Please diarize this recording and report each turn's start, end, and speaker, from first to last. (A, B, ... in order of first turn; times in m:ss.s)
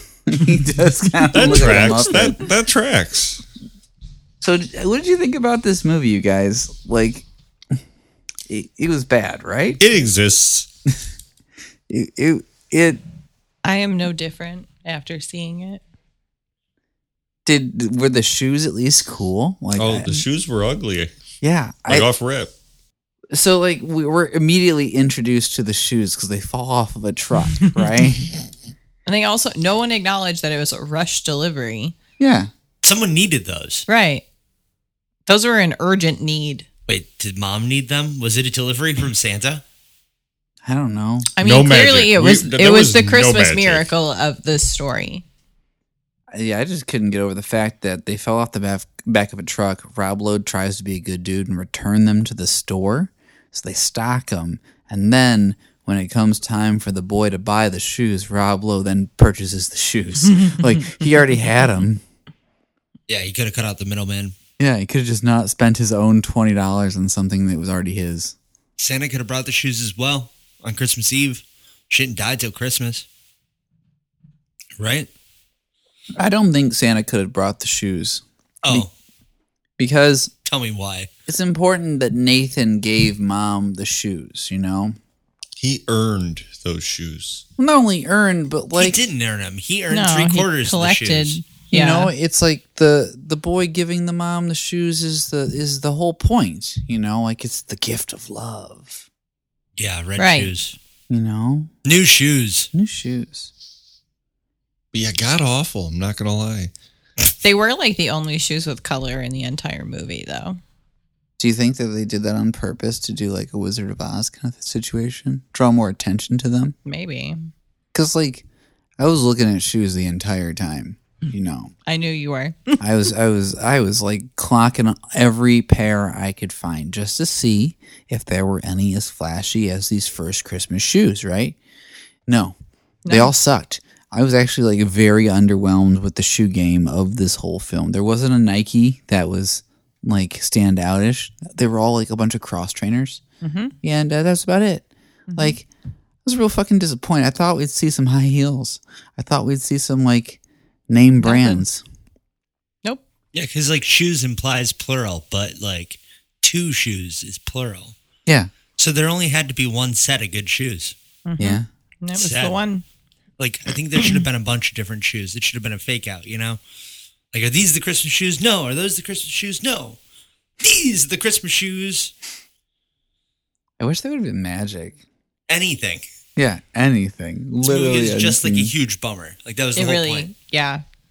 0:00.3-0:02.4 A
0:01.3-0:03.4 B
0:04.4-0:07.3 A
0:08.5-0:09.8 A
0:09.8-0:10.7 B
0:11.9-0:13.0 A
0:13.6-0:15.8 C
0:17.4-0:20.1 A
0:19.8-0:21.1 B
0:21.4-0:22.1 A
0:21.9-0:22.5 B
0:23.3-0:28.3 A
0:29.0-0:31.9 C
0:32.2-0:32.5 A
0:32.8-0:33.8 D
0:33.9-0:34.2 C
0:35.3-0:36.6 C
0:36.9-0:39.6 D
0:40.6-0:41.3 A
0:41.4-0:45.2 C
0:41.4-0:43.8 B
0:46.3-1:02.0 A
1:03.1-1:04.3 D
1:04.6-1:08.4 A
1:08.8-1:13.0 D
1:14.8-1:15.1 D
1:16.2-1:18.9 A
1:18.6-1:18.9 D
1:19.8-1:20.3 A
1:20.4-1:21.1 D
1:21.3-1:25.0 A
1:25.6-1:27.4 B
1:27.6-1:29.0 A
1:28.7-1:31.4 D
1:29.9-1:32.1 C
1:31.7-1:39.0 A
1:39.8-1:40.8 D
1:40.2-1:40.5 C
1:41.1-1:41.7 A
1:41.8-1:42.7 D
1:42.7-1:43.5 A
1:44.9-1:46.7 B
1:47.4-1:50.6 C
1:51.4-1:56.8 A
1:56.8-1:57.5 C
1:57.9-1:58.4 A
1:59.0-2:01.7 A
2:01.8-2:02.8 C
2:02.8-2:11.6 A
2:12.3-2:12.5 A
2:13.0-2:13.3 C
2:13.1-2:23.2 A
2:23.4-2:23.7 C
2:23.8-2:25.7 A
2:25.3-2:25.6 C
2:26.2-2:31.8 A
2:31.2-2:31.6 C
2:33.3-2:38.0 D
2:38.2-2:38.5 A
2:38.8-2:41.0 D
2:41.2-2:42.8 C
2:41.4-2:41.7 A
2:42.1-2:42.6 D
2:43.4-2:46.6 D
2:47.3-2:50.0 D
2:50.6-2:52.1 D
2:53.8-2:55.0 A
2:55.5-2:56.0 D
2:56.4-2:58.7 A
2:57.6-3:00.3 D
2:59.8-3:00.8 C